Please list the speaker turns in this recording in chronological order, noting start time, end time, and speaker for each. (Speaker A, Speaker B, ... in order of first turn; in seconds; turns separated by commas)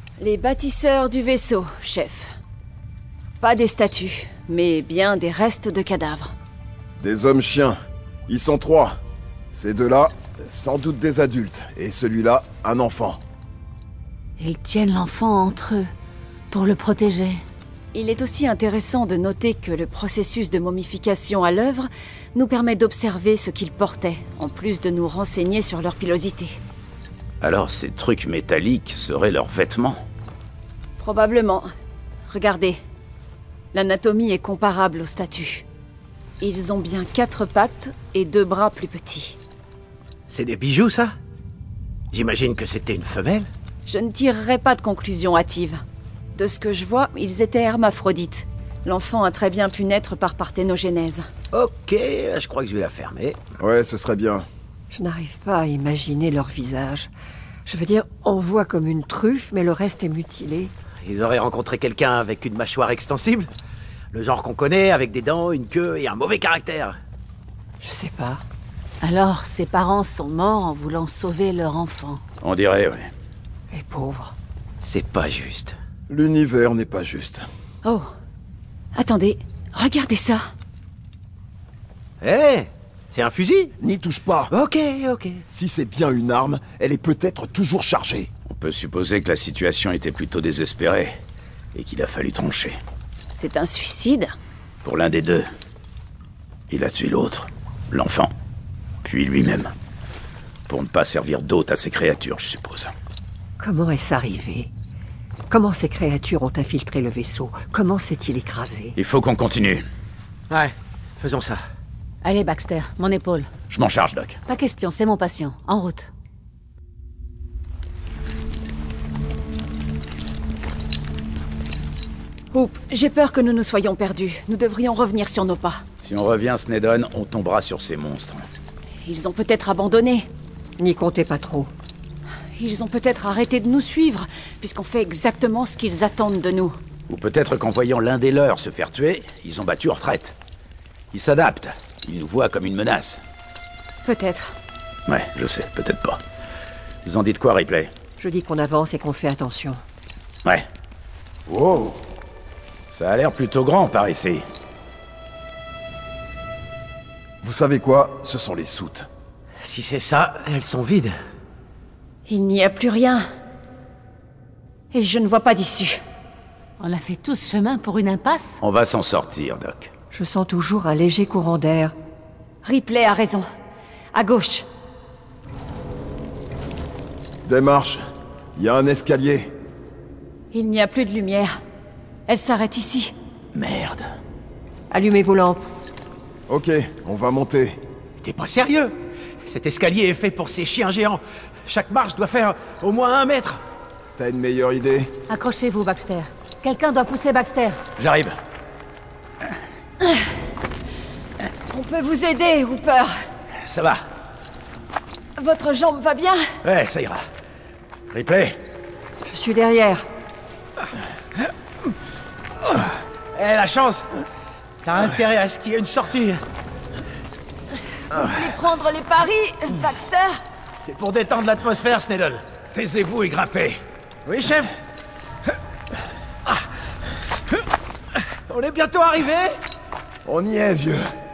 Speaker A: 0.2-2.3, Speaker A: 3.4-6.3, Speaker B: 7.0-8.9, Speaker B: 9.5-13.2, Speaker C: 14.4-15.9, Speaker C: 16.5-17.4, Speaker A: 17.9-26.6, Speaker D: 27.4-30.0, Speaker A: 31.0-31.7, Speaker A: 32.3-32.8, Speaker A: 33.7-35.6, Speaker A: 36.4-39.4, Speaker E: 40.3-41.1, Speaker E: 42.1-43.5, Speaker A: 43.9-45.8, Speaker A: 46.4-51.3, Speaker E: 51.5-53.4, Speaker B: 53.6-54.5, Speaker F: 54.9-57.1, Speaker F: 57.6-60.7, Speaker E: 61.0-63.5, Speaker E: 64.1-67.0, Speaker F: 67.8-68.4, Speaker C: 69.0-72.2, Speaker D: 72.4-73.1, Speaker F: 73.7-74.3, Speaker E: 74.8-75.7, Speaker B: 76.1-77.5, Speaker A: 78.9-80.4, Speaker E: 82.2-83.7, Speaker B: 83.8-84.5, Speaker E: 84.5-85.4, Speaker B: 85.5-88.3, Speaker D: 88.5-91.2, Speaker D: 91.7-92.8, Speaker A: 93.3-94.3, Speaker D: 94.8-95.5, Speaker D: 96.7-98.3, Speaker D: 99.0-99.7, Speaker D: 100.7-102.9, Speaker F: 103.6-104.7, Speaker F: 105.5-109.0, Speaker D: 109.0-109.8, Speaker E: 110.5-111.6, Speaker C: 112.2-113.5, Speaker D: 113.7-114.4, Speaker C: 114.5-116.1, Speaker A: 122.5-125.8, Speaker D: 126.0-128.4, Speaker A: 129.0-130.3, Speaker F: 130.8-131.7, Speaker A: 132.6-136.8, Speaker D: 137.1-140.3, Speaker D: 141.1-143.2, Speaker A: 144.0-144.6, Speaker D: 145.1-146.2, Speaker D: 147.0-147.9, Speaker F: 148.2-149.8, Speaker B: 151.5-152.0, Speaker D: 152.9-154.4, Speaker B: 157.4-159.1, Speaker E: 159.6-161.1, Speaker A: 162.3-163.2, Speaker A: 164.9-166.0, Speaker C: 166.8-168.6, Speaker D: 168.6-169.9, Speaker F: 170.1-171.9, Speaker A: 172.6-173.4, Speaker A: 174.1-174.7, Speaker B: 177.4-178.0, Speaker B: 178.6-179.5, Speaker A: 180.5-181.5, Speaker A: 182.3-183.1, Speaker D: 183.5-184.1, Speaker F: 184.9-185.6, Speaker B: 186.5-187.8, Speaker E: 188.2-193.6, Speaker B: 194.2-195.1, Speaker C: 195.3-197.8, Speaker D: 198.0-198.3, Speaker A: 201.7-203.1, Speaker D: 203.6-204.0, Speaker A: 205.4-206.4, Speaker D: 206.6-207.2, Speaker D: 208.1-208.6, Speaker F: 209.2-210.0, Speaker E: 213.3-214.1, Speaker E: 214.8-216.4, Speaker A: 218.1-220.4, Speaker E: 220.8-222.4, Speaker D: 222.7-223.8, Speaker E: 224.2-224.8, Speaker E: 228.5-229.6, Speaker B: 230.2-231.1